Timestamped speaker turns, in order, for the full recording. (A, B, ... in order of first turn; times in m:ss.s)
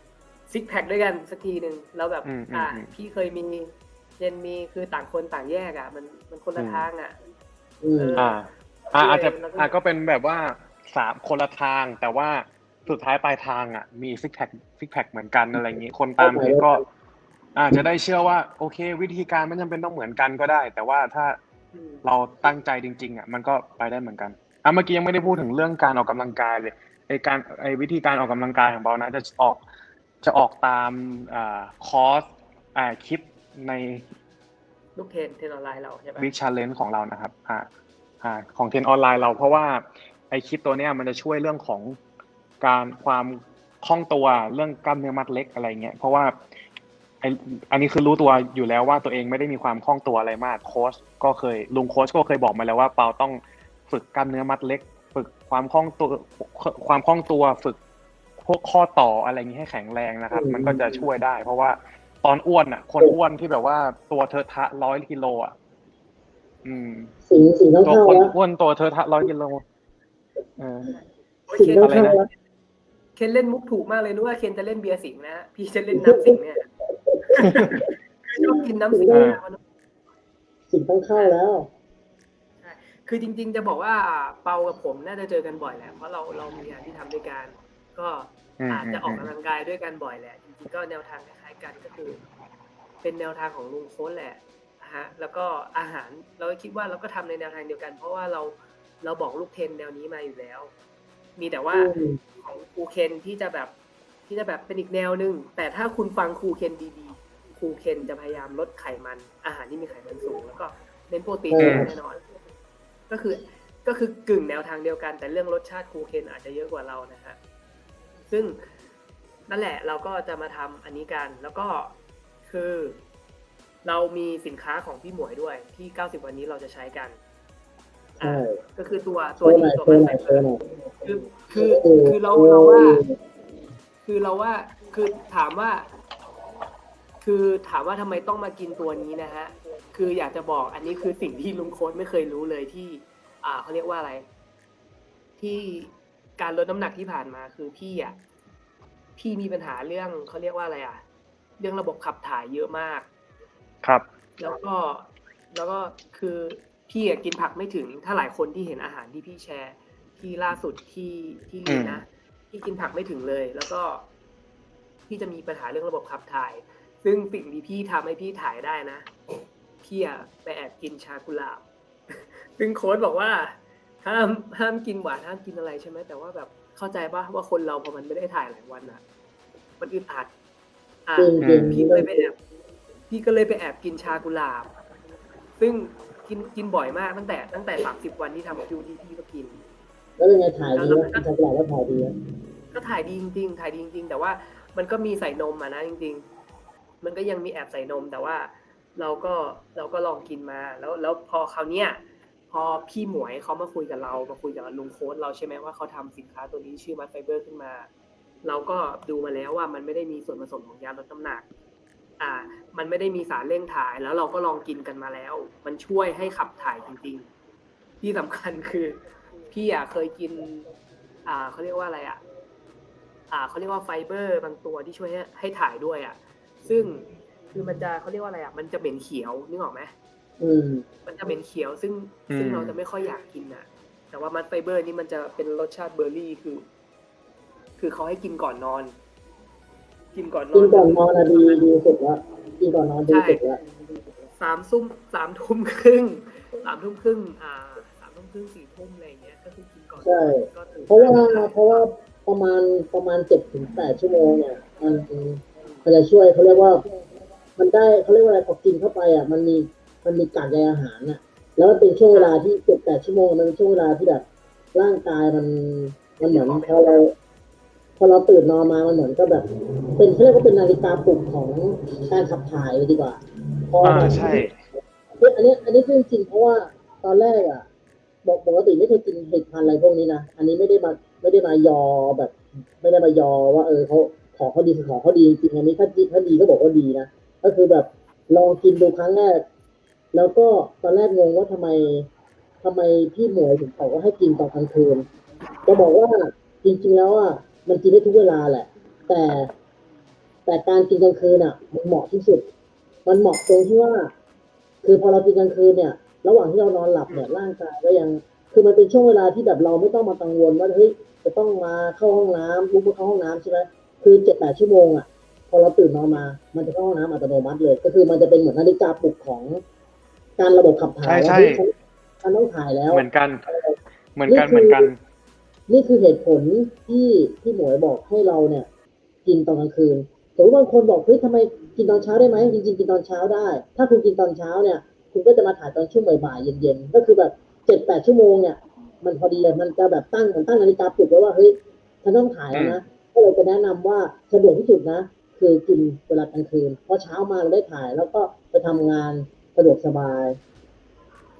0:00.5-0:07.2 A
0:02.2-0:02.9 B
0:06.6-0:06.8 B
0:07.8-0:08.3 C
0:08.0-0:08.4 A
0:08.2-0:16.8 B
0:08.9-0:09.8 A
0:15.5-0:16.8 C
0:17.6-0:21.4 B
0:21.7-0:22.0 A
0:22.0-0:29.6 B
0:30.2-0:34.1 B
0:35.0-0:36.3 A
0:36.2-0:37.7 B
0:38.2-0:42.0 B
0:42.6-0:46.4 B
0:47.2-0:57.8 B
0:58.4-1:05.5 B
1:00.3-1:01.0 C
1:06.6-1:07.1 B
1:07.3-1:08.3 C
1:07.8-1:09.6 B
1:10.6-1:10.9 B
1:11.5-1:12.2 A
1:11.5-1:12.3 C
1:11.8-1:12.2 B
1:13.2-1:16.6 A
1:15.9-1:16.4 C
1:17.0-1:19.2 C
1:17.4-1:19.6 A
1:19.1-1:19.4 B
1:20.7-1:21.7 C
1:21.1-1:21.4 A
1:22.6-1:32.2 A
1:28.6-1:29.3 B
1:33.0-1:40.7 A
1:41.4-1:43.7 A
1:41.7-1:42.2 C
1:44.3-1:52.2 A
1:51.5-1:51.9 C
1:51.6-1:51.9 B
1:53.1-1:57.4 A
1:58.3-1:58.7 A
1:59.5-2:03.0 A
2:03.8-2:07.2 A
2:08.2-2:10.5 A
2:08.2-2:08.6 C
2:09.4-2:10.7 C
2:11.0-2:13.0 A
2:11.5-2:13.1 C
2:14.0-2:15.9 A
2:17.2-2:24.3 A
2:25.4-2:28.2 A
2:29.2-2:31.0 A
2:31.6-2:33.1 A
2:34.4-2:44.0 A
2:41.6-2:42.0 B
2:45.1-2:49.1 A
2:49.8-2:59.0 A
2:59.8-3:00.3 A
3:01.0-3:02.4 A
3:01.2-3:02.2 C
3:01.4-3:01.8 B
3:03.1-3:04.7 A
3:05.6-3:09.6 A
3:10.2-3:12.1 C
3:10.7-3:11.2 A
3:12.7-3:16.2 A
3:17.0-3:27.9 A
3:28.4-3:31.4 A
3:32.2-3:37.3 A
3:38.0-3:40.7 A
3:41.2-3:42.2 A
3:43.3-3:49.9 A
3:50.4-3:50.8 C
3:51.0-3:56.6 A
3:52.3-3:52.8 B
3:57.8-3:59.0 A
4:00.1-4:01.6 A
4:00.5-4:03.6 C
4:03.1-4:03.4 A
4:04.4-4:11.8 A
4:10.0-4:16.8 C
4:17.6-4:24.2 C
4:22.1-4:22.4 A
4:24.7-4:27.1 C
4:26.2-4:27.0 A
4:28.0-4:29.4 C
4:30.0-4:34.4 C
4:33.8-4:34.6 B
4:35.2-4:37.6 C
4:38.2-4:49.4 C
4:50.1-4:52.1 C
4:52.6-4:55.0 C
4:55.6-4:59.5 C
5:00.4-5:02.5 C
5:03.0-5:04.1 C
5:04.8-5:19.6 C
5:07.1-5:07.3 A
5:20.4-5:24.9 C
5:21.0-5:21.6 B
5:22.9-5:23.4 B
5:24.2-5:25.0 B
5:25.7-5:28.7 C
5:29.2-5:50.4 C
5:42.5-5:42.8 B